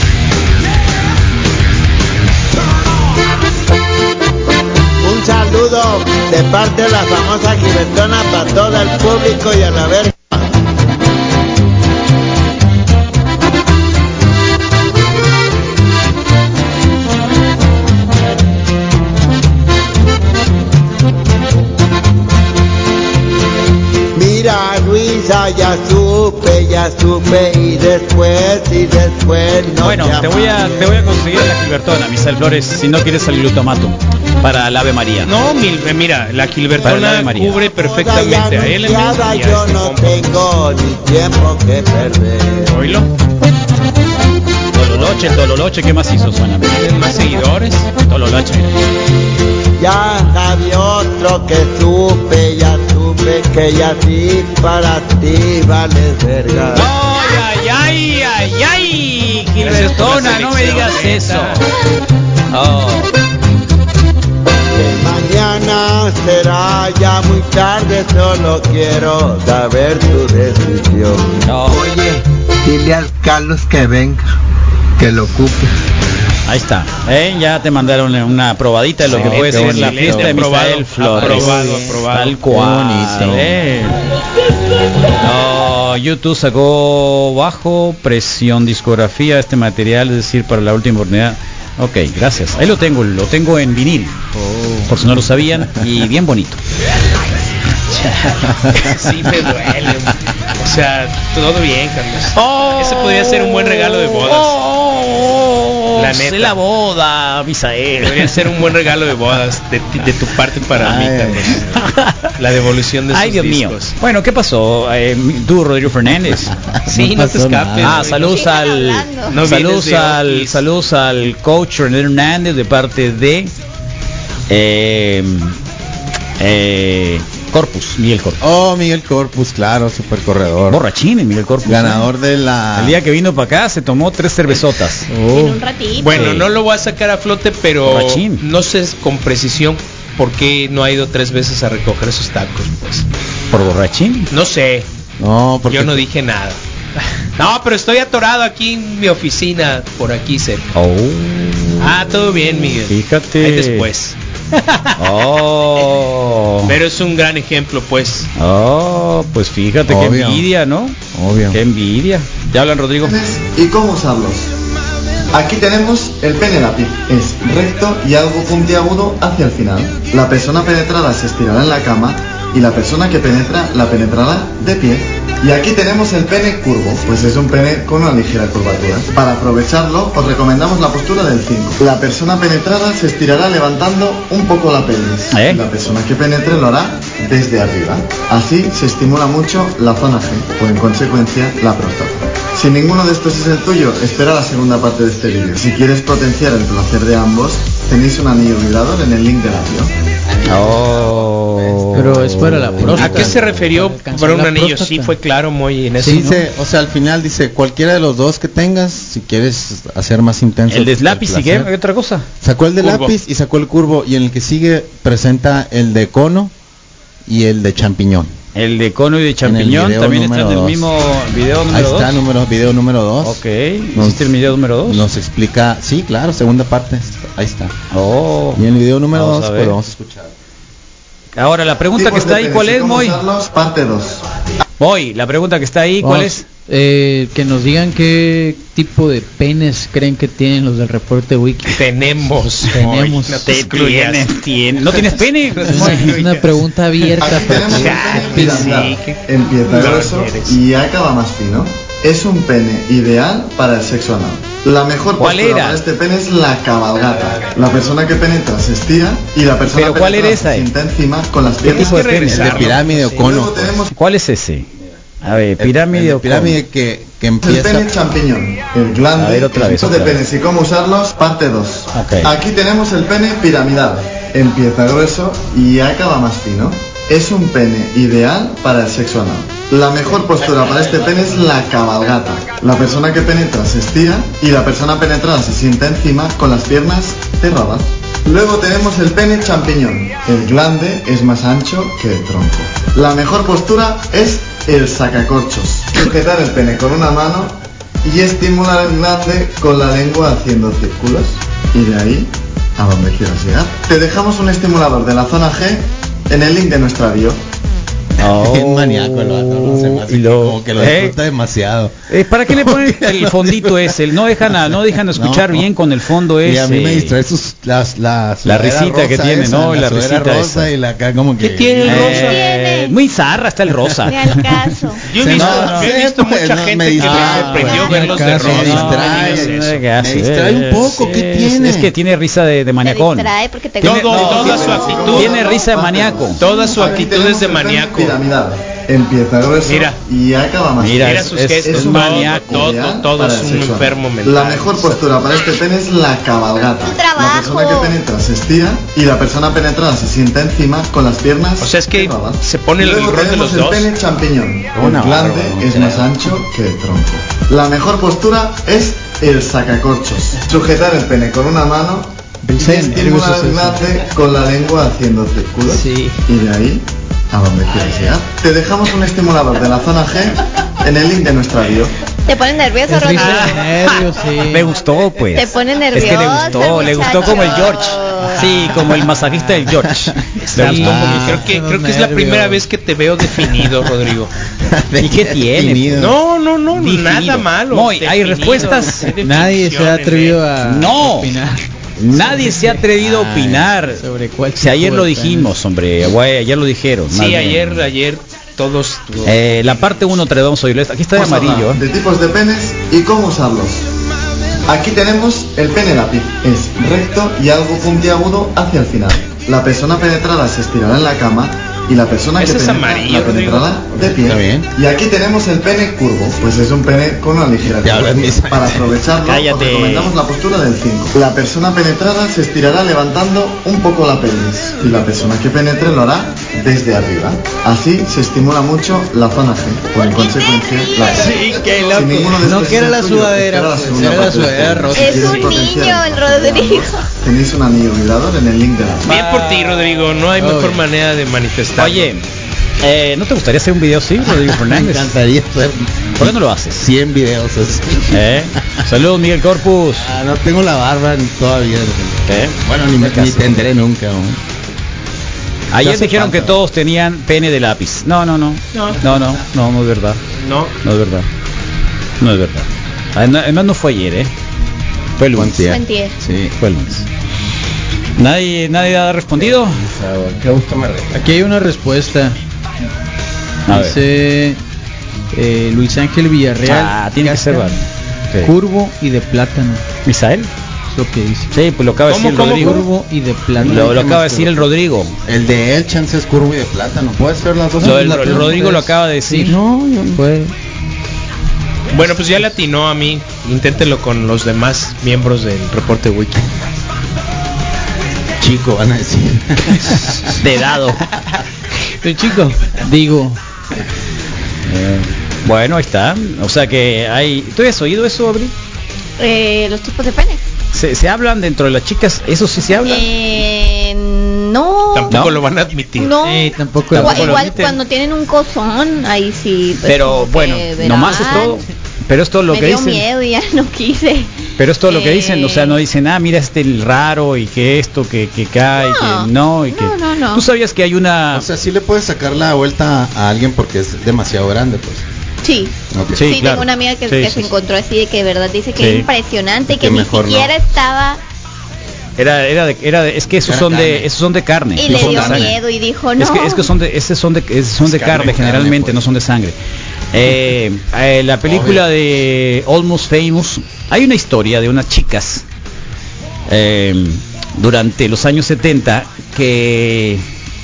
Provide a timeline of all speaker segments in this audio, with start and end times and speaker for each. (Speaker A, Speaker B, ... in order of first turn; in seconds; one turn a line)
Speaker A: 5.0-10.4
Speaker A: 24.1-31.4
Speaker B: 29.8-35.3
Speaker C: 35.2-40.5
Speaker A: 36.7-42.8
Speaker B: 36.8-37.6
Speaker C: 42.6-43.1
Speaker B: 44.7-46.9
Speaker A: 44.8-45.5
Speaker C: 46.7-47.9
Speaker B: 48.0-48.7
Speaker A: 49.8-56.9
Speaker B: 56.7-61.7
Speaker C: 59.6-61.6
Speaker B: 62.5-63.1
Speaker A: 64.7-74.3
Speaker B: 71.4-71.8
Speaker A: 75.0-75.7
Speaker B: 76.5-84.0
Speaker D: 79.0-80.4
Speaker C: 79.1-82.4
Speaker E: 81.1-82.0
Speaker D: 82.5-83.6
Speaker B: 85.2-94.2
Speaker E: 94.5-94.8
Speaker B: 94.9-96.6
Speaker C: 98.0-104.6
Speaker B: 102.3-108.6
Speaker C: 105.9-106.6
Speaker C: 108.0-111.8
Speaker B: 110.8-112.3
Speaker D: 110.8-111.4
Speaker C: 112.4-114.0
Speaker B: 113.1-116.5
Speaker C: 116.8-118.2
Speaker D: 116.9-118.0
Speaker B: 117.8-123.5
Speaker F: 118.2-119.4
Speaker C: 119.3-120.6
Speaker B: 124.5-125.6
Speaker B: 126.4-128.4
Speaker D: 128.4-130.8
Speaker B: 130.7-132.0
Speaker D: 131.6-133.0
Speaker B: 132.8-135.2
Speaker E: 135.1-135.6
Speaker F: 135.3-136.2
Speaker C: 136.0-143.0
Speaker B: 136.1-136.5
Speaker B: 137.8-138.4
Speaker B: 143.5-144.3
Speaker C: 144.3-144.8
Speaker D: 145.2-146.0
Speaker C: 145.7-146.6
Speaker C: 147.3-150.7
Speaker B: 150.7-152.0
Speaker C: 151.8-155.2
Speaker B: 152.7-153.9
Speaker B: 155.0-156.8
Speaker C: 156.7-158.3
Speaker B: 158.3-163.2
Speaker D: 159.9-160.5
Speaker D: 161.1-161.6
Speaker G: 163.0-164.5
Speaker G: 165.3-199.9
Speaker B: 185.3-185.6
Speaker D: 200.3-203.6
Speaker B: 200.4-203.3
Speaker E: 201.9-205.1
Speaker C: 202.9-206.2
Speaker E: 206.0-206.5
Speaker D: 206.0-211.7
Speaker B: 210.7-212.2
Speaker D: 212.4-216.5
Speaker C: 212.8-213.1
Speaker D: 217.2-218.3
Speaker B: 218.5-222.1
Speaker D: 219.4-220.9
Speaker D: 221.7-223.4
Speaker B: 223.2-225.0
Speaker D: 223.9-227.7
Speaker B: 227.9-228.6
Speaker D: 228.5-230.3
Speaker B: 229.1-229.8
Speaker B: 231.3-233.2
Speaker G: 231.9-234.3
Speaker B: 234.8-236.5
Speaker E: 236.0-241.8
Speaker C: 241.8-244.3
Speaker E: 242.7-243.5
Speaker B: 243.4-246.2
Speaker C: 244.8-250.6
Speaker E: 245.6-248.7
Speaker G: 247.2-262.2
Speaker B: 255.2-255.8
Speaker B: 259.7-260.7
Speaker C: 261.6-262.8
Speaker B: 261.6-262.6
Speaker D: 262.2-263.8
Speaker E: 262.6-263.4
Speaker G: 263.1-263.9
Speaker B: 263.9-264.7
Speaker B: 265.2-266.6
Speaker D: 265.6-267.9
Speaker E: 267.4-267.9
Speaker G: 267.4-307.4
Speaker B: 269.1-270.2
Speaker B: 271.9-272.4
Speaker B: 308.2-311.1
Speaker D: 308.2-315.6
Speaker B: 312.1-317.1
Speaker D: 316.4-322.3
Speaker B: 318.4-320.7
Speaker C: 321.4-322.5
Speaker B: 321.8-325.9
Speaker F: 322.2-323.0
Speaker F: 324.0-325.1
Speaker C: 325.1-329.8
Speaker D: 325.2-331.9
Speaker E: 327.0-329.1
Speaker B: 327.1-334.6
Speaker F: 332.8-335.4
Speaker C: 333.8-335.5
Speaker G: 334.1-371.9
Speaker B: 335.1-336.4
Speaker C: 336.4-338.2
Speaker F: 336.4-336.9
Speaker C: 339.6-340.0
Speaker B: 340.8-342.6
Speaker C: 341.0-345.0
Speaker F: 346.5-348.0
Speaker C: 351.6-353.9
Speaker D: 354.7-356.1
Speaker E: 362.4-363.8
Speaker E: 365.7-366.2
Speaker F: 372.2-373.6
Speaker E: 372.8-374.7
Speaker B: 373.1-381.4
Speaker F: 375.3-378.6
Speaker E: 376.1-376.8
Speaker C: 380.4-384.3
Speaker E: 380.6-382.6
Speaker D: 384.6-386.1
Speaker B: 385.0-386.1
Speaker C: 386.0-390.5
Speaker B: 386.7-389.1
Speaker E: 388.6-395.6
Speaker B: 390.6-391.3
Speaker B: 392.0-394.0
Speaker B: 394.6-397.9
Speaker C: 397.1-400.2
Speaker B: 399.2-401.8
Speaker G: 401.1-403.8
Speaker G: 404.6-439.1
Speaker C: 412.4-413.7
Speaker D: 414.1-414.7
Speaker D: 417.6-419.0
Speaker B: 419.2-420.2
Speaker F: 429.9-431.9
Speaker E: 431.1-435.5
Speaker B: 431.3-432.1
Speaker F: 434.9-437.1
Speaker B: 439.0-439.9
Speaker C: 439.1-442.1
Speaker E: 440.4-440.8
Speaker B: 441.8-442.2
Speaker B: 442.8-445.1
Speaker D: 444.2-448.8
Speaker B: 446.2-446.9
Speaker B: 448.1-450.1
Speaker D: 450.0-454.4
Speaker B: 452.2-453.6
Speaker B: 455.7-460.2
Speaker D: 455.8-456.6
Speaker C: 458.7-459.0
Speaker C: 460.4-460.7
Speaker B: 460.8-461.3
Speaker B: 462.2-464.3
Speaker B: 465.2-465.7
Speaker D: 465.4-466.5
Speaker F: 465.6-466.1
Speaker B: 466.6-467.0
Speaker B: 468.2-469.8
Speaker D: 469.4-471.2
Speaker E: 471.1-472.4
Speaker B: 473.7-474.0
Speaker E: 473.7-474.6
Speaker E: 475.3-477.8
Speaker B: 476.6-478.5
Speaker E: 478.4-479.8
Speaker B: 480.1-480.5
Speaker E: 480.9-481.5
Speaker B: 481.5-482.9
Speaker C: 482.1-482.9
Speaker E: 482.4-484.5
Speaker D: 483.6-484.6
Speaker B: 483.6-485.1
Speaker D: 485.3-488.6
Speaker E: 487.8-490.5
Speaker B: 487.8-489.6
Speaker C: 488.1-488.4
Speaker D: 489.5-490.2
Speaker C: 491.9-496.5
Speaker D: 498.4-500.3
Speaker B: 500.4-501.1
Speaker E: 502.0-503.4
Speaker B: 504.7-508.5
Speaker F: 509.2-510.4
Speaker B: 510.7-513.1
Speaker F: 512.7-515.2
Speaker C: 514.9-516.1
Speaker B: 515.1-515.4
Speaker F: 516.0-521.6
Speaker E: 516.2-517.6
Speaker B: 516.9-517.8
Speaker B: 519.8-523.0
Speaker F: 522.5-525.8
Speaker B: 524.6-531.4
Speaker F: 528.7-530.5
Speaker D: 531.3-535.0
Speaker F: 535.4-541.2
Speaker D: 535.9-536.4
Speaker B: 536.1-537.5
Speaker B: 538.8-539.1
Speaker D: 539.7-540.5
Speaker B: 542.2-545.5
Speaker D: 543.4-544.1
Speaker F: 544.7-546.7
Speaker D: 544.8-545.6
Speaker B: 546.2-549.6
Speaker D: 547.8-549.0
Speaker B: 550.1-555.4
Speaker D: 551.4-551.9
Speaker B: 556.5-560.2